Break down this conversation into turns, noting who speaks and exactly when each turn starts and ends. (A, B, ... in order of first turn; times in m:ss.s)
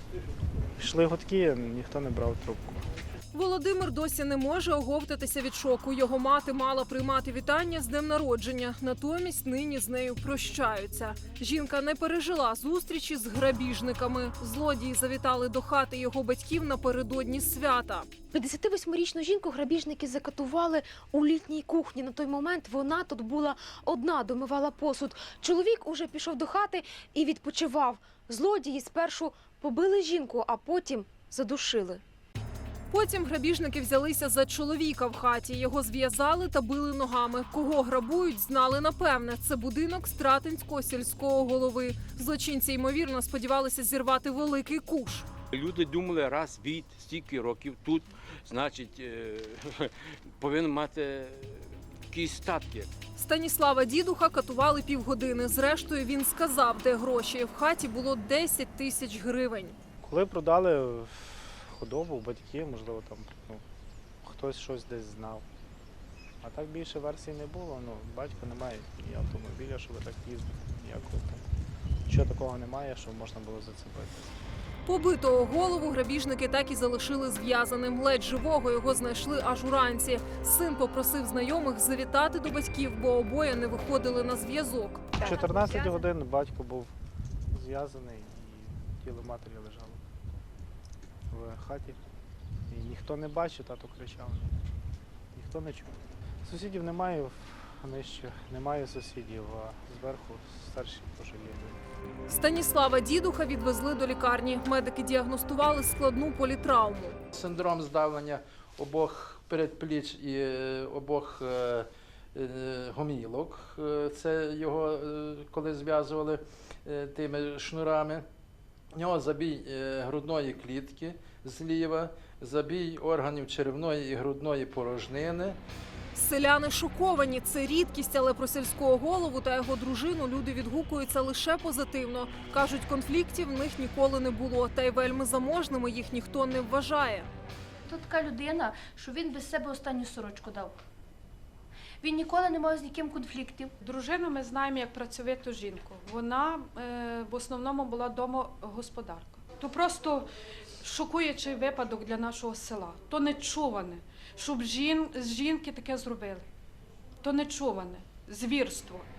0:00.8-0:02.8 A
0:03.3-0:18.1 B
0:18.3-0:32.0 C
0:32.9-0:45.3 B
0:45.5-0:52.9 D
0:53.2-0:59.8 B
1:00.0-1:03.6 A
1:04.2-1:05.4 A
1:06.4-1:11.5 A
1:12.1-1:14.3 A
1:14.8-1:25.2 B
1:25.2-1:26.9 A
1:27.5-1:30.0 A
1:31.3-1:32.0 A
1:32.7-1:34.6 A
1:35.3-1:41.8 A
1:42.3-1:47.2 B
1:47.3-1:58.2 E
1:58.9-2:05.6 E
2:06.1-2:17.3 B
2:17.9-2:20.8 F
2:22.0-2:23.7 F
2:23.8-2:30.3 G
2:30.8-2:36.5 G
2:37.2-2:39.1 G